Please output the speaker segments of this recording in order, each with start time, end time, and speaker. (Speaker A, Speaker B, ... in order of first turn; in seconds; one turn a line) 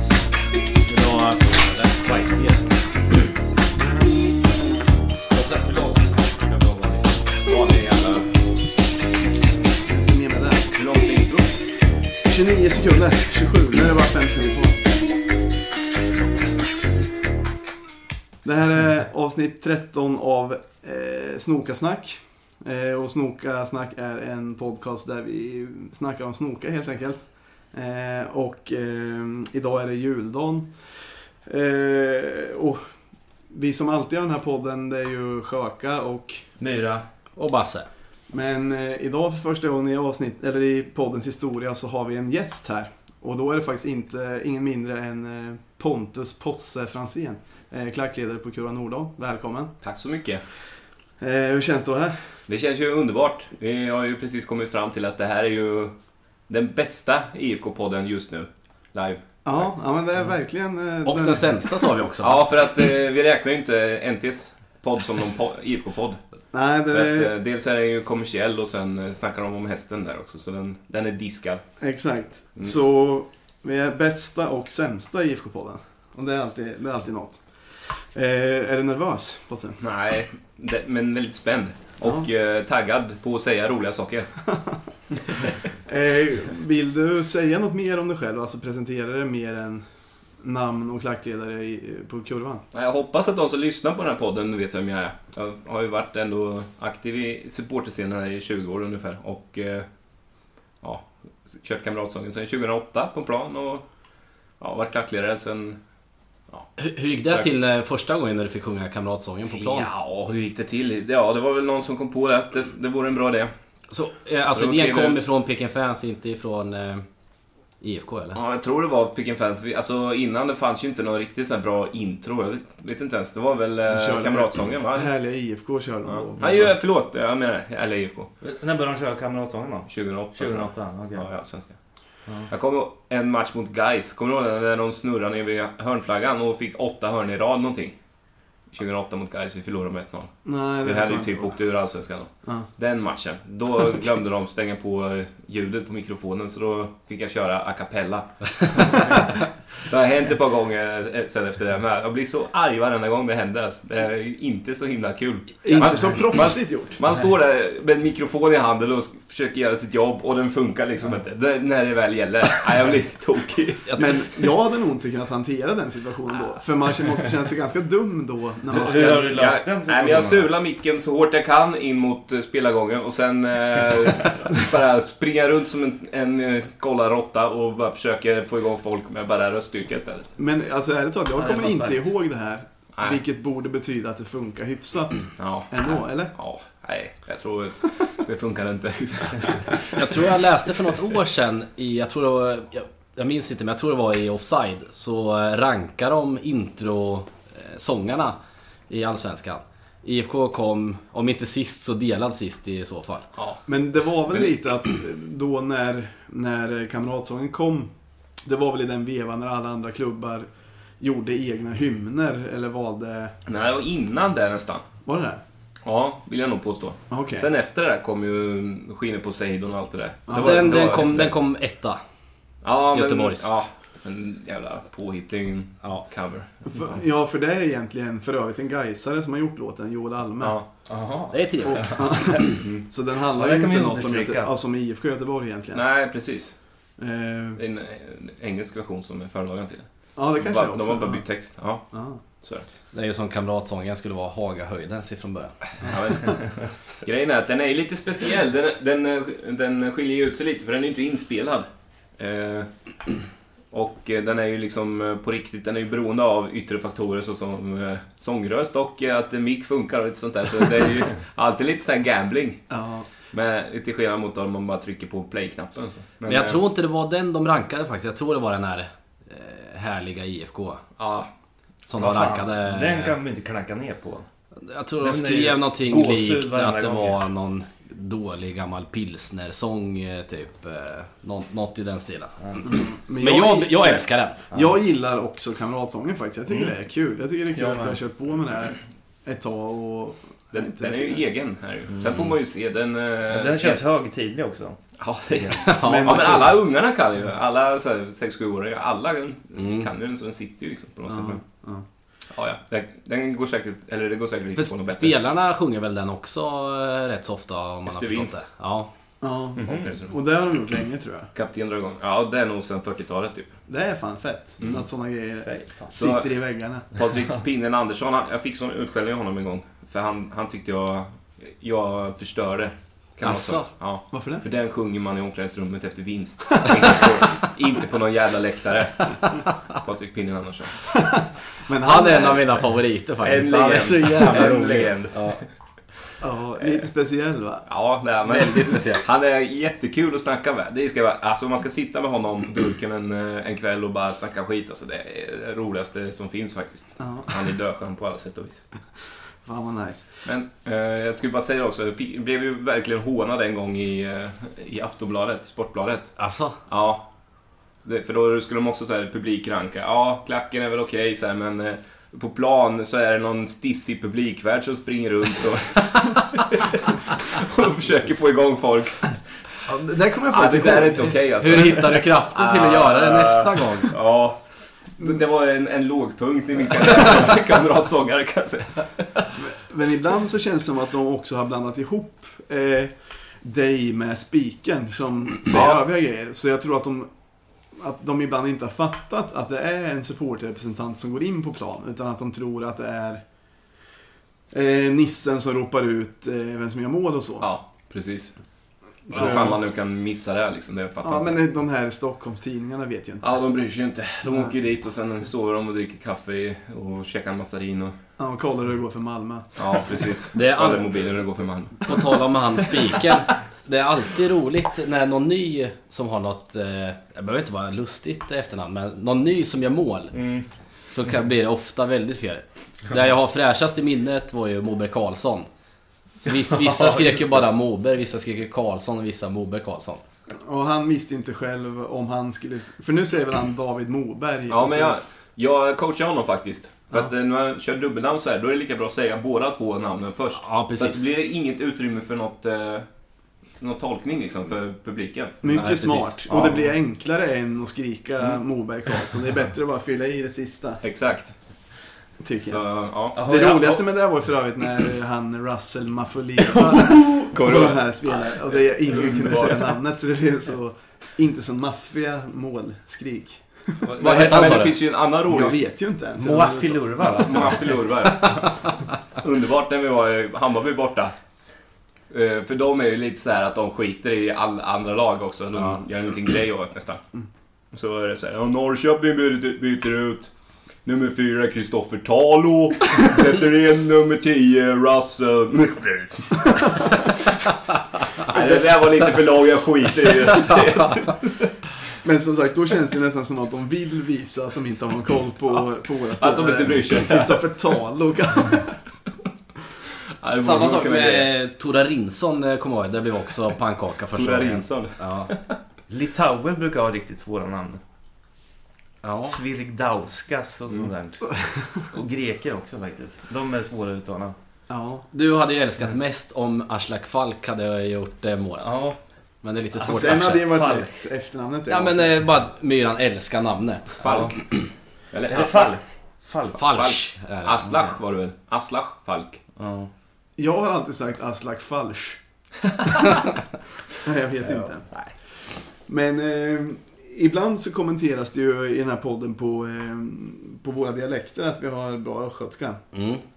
Speaker A: 0.9-2.5
Speaker A: 5.3-8.6
Speaker B: 9.9-10.7
Speaker A: 10.7-11.8
Speaker B: 12.2-14.8
Speaker B: 18.4-32.9
Speaker B: 33.5-36.5
Speaker C: 36.6-37.1
Speaker D: 37.4-37.9
Speaker B: 38.3-49.8
Speaker A: 49.8-50.5
Speaker B: 51.2-52.4
Speaker A: 52.5-59.8
Speaker B: 59.4-61.9
Speaker D: 61.0-62.4
Speaker A: 62.2-66.2
Speaker B: 66.5-67.3
Speaker A: 66.9-71.6
Speaker B: 71.8-79.8
Speaker A: 79.8-84.4
Speaker B: 82.0-82.3
Speaker B: 85.8-89.8
Speaker B: 90.4-92.6
Speaker A: 92.7-99.9
Speaker A: 100.8-103.8
Speaker A: 104.6-105.8
Speaker D: 106.8-109.9
Speaker A: 107.2-107.5
Speaker A: 109.5-113.5
Speaker D: 113.9-117.1
Speaker A: 114.5-115.2
Speaker D: 117.8-118.4
Speaker A: 118.3-125.1
Speaker B: 123.9-126.7
Speaker A: 126.1-128.3
Speaker C: 128.4-131.3
Speaker A: 129.9-164.2
Speaker B: 140.4-141.6
Speaker B: 142.4-142.7
Speaker B: 155.6-157.0
Speaker D: 163.9-164.3
Speaker B: 164.0-169.3
Speaker C: 168.7-170.5
Speaker A: 168.9-180.3
Speaker B: 180.4-186.3
Speaker C: 181.4-182.0
Speaker A: 185.4-190.3
Speaker D: 189.9-198.4
Speaker D: 198.9-203.3
Speaker A: 203.4-203.6
Speaker B: 203.7-213.3
Speaker A: 213.5-214.8
Speaker B: 215.1-215.4
Speaker A: 215.8-221.3
Speaker B: 217.1-217.5
Speaker B: 220.3-220.7
Speaker D: 220.3-222.0
Speaker A: 222.6-227.0
Speaker D: 222.9-223.5
Speaker B: 226.7-230.6
Speaker A: 230.4-230.7
Speaker C: 230.9-232.0
Speaker D: 231.3-232.5
Speaker B: 231.7-235.8
Speaker A: 232.5-232.8
Speaker C: 233.4-234.5
Speaker A: 235.7-236.7
Speaker B: 237.0-237.6
Speaker A: 237.6-242.7
Speaker B: 240.2-241.3
Speaker B: 241.9-242.2
Speaker D: 242.9-245.6
Speaker A: 245.8-253.1
Speaker B: 245.9-246.4
Speaker A: 253.7-266.6
Speaker B: 262.7-263.1
Speaker D: 266.2-270.8
Speaker A: 271.0-271.3
Speaker D: 271.9-273.1
Speaker C: 271.9-274.3
Speaker D: 274.6-282.4
Speaker C: 275.0-277.2
Speaker C: 282.4-282.6
Speaker B: 282.6-291.2
Speaker D: 283.2-284.4
Speaker C: 286.5-286.7
Speaker C: 287.5-288.0
Speaker A: 290.5-293.8
Speaker C: 291.9-292.3
Speaker C: 293.3-294.8
Speaker A: 295.0-301.4
Speaker D: 295.6-296.3
Speaker B: 295.8-296.6
Speaker D: 299.5-299.9
Speaker B: 301.1-301.8
Speaker A: 302.3-305.1
Speaker D: 304.6-308.9
Speaker A: 307.9-308.4
Speaker B: 309.2-311.3
Speaker C: 309.6-309.9
Speaker A: 309.6-310.1
Speaker A: 311.3-313.5
Speaker B: 313.7-316.9
Speaker C: 315.4-315.8
Speaker A: 315.9-331.0
Speaker D: 323.2-323.7
Speaker B: 324.1-324.4
Speaker B: 331.0-332.4
Speaker D: 331.8-335.4
Speaker A: 333.2-335.5
Speaker B: 336.2-337.7
Speaker A: 337.7-348.7
Speaker D: 338.4-339.0
Speaker B: 347.0-347.3
Speaker B: 349.4-350.1
Speaker A: 350.2-357.1
Speaker D: 356.2-356.6
Speaker A: 357.8-369.5
Speaker B: 369.6-371.2
Speaker A: 370.3-379.2
Speaker D: 371.4-373.9
Speaker B: 379.3-393.2
Speaker A: 385.5-385.8
Speaker B: 394.5-397.5
Speaker A: 397.4-398.4
Speaker A: 399.1-401.4
Speaker B: 399.1-399.6
Speaker B: 401.0-403.3
Speaker A: 403.2-407.9
Speaker B: 404.3-404.5
Speaker B: 408.2-410.1
Speaker A: 409.6-412.1
Speaker D: 410.3-410.9
Speaker D: 411.9-425.5
Speaker C: 420.1-420.5
Speaker D: 426.2-430.0
Speaker C: 426.6-427.1
Speaker B: 430.4-434.9
Speaker A: 434.5-442.9
Speaker D: 440.4-441.0
Speaker A: 443.5-446.7
Speaker B: 445.4-450.8
Speaker D: 445.6-446.1
Speaker A: 450.8-451.9
Speaker B: 452.2-464.7
Speaker A: 452.5-453.2
Speaker C: 453.1-453.8
Speaker A: 456.7-459.8
Speaker A: 463.8-465.6
Speaker D: 464.0-464.8
Speaker B: 465.2-467.5
Speaker C: 466.2-468.4
Speaker A: 467.1-471.1
Speaker A: 472.1-477.0
Speaker D: 475.5-475.8
Speaker A: 477.7-480.3
Speaker A: 480.8-487.3
Speaker A: 488.2-491.5
Speaker B: 492.0-498.8
Speaker A: 496.2-497.6
Speaker A: 500.2-501.3
Speaker D: 500.4-505.3
Speaker A: 504.1-505.5
Speaker C: 505.9-507.8
Speaker D: 509.0-509.4
Speaker C: 509.2-514.4
Speaker B: 514.7-515.1
Speaker D: 515.1-520.5
Speaker C: 518.6-519.0
Speaker C: 519.7-520.9
Speaker B: 519.9-522.2
Speaker D: 521.7-524.0
Speaker C: 524.0-524.4
Speaker A: 524.0-529.4
Speaker C: 525.3-526.6
Speaker D: 526.5-528.0
Speaker C: 529.5-529.9
Speaker B: 530.4-532.2
Speaker B: 534.0-542.8
Speaker D: 542.9-543.2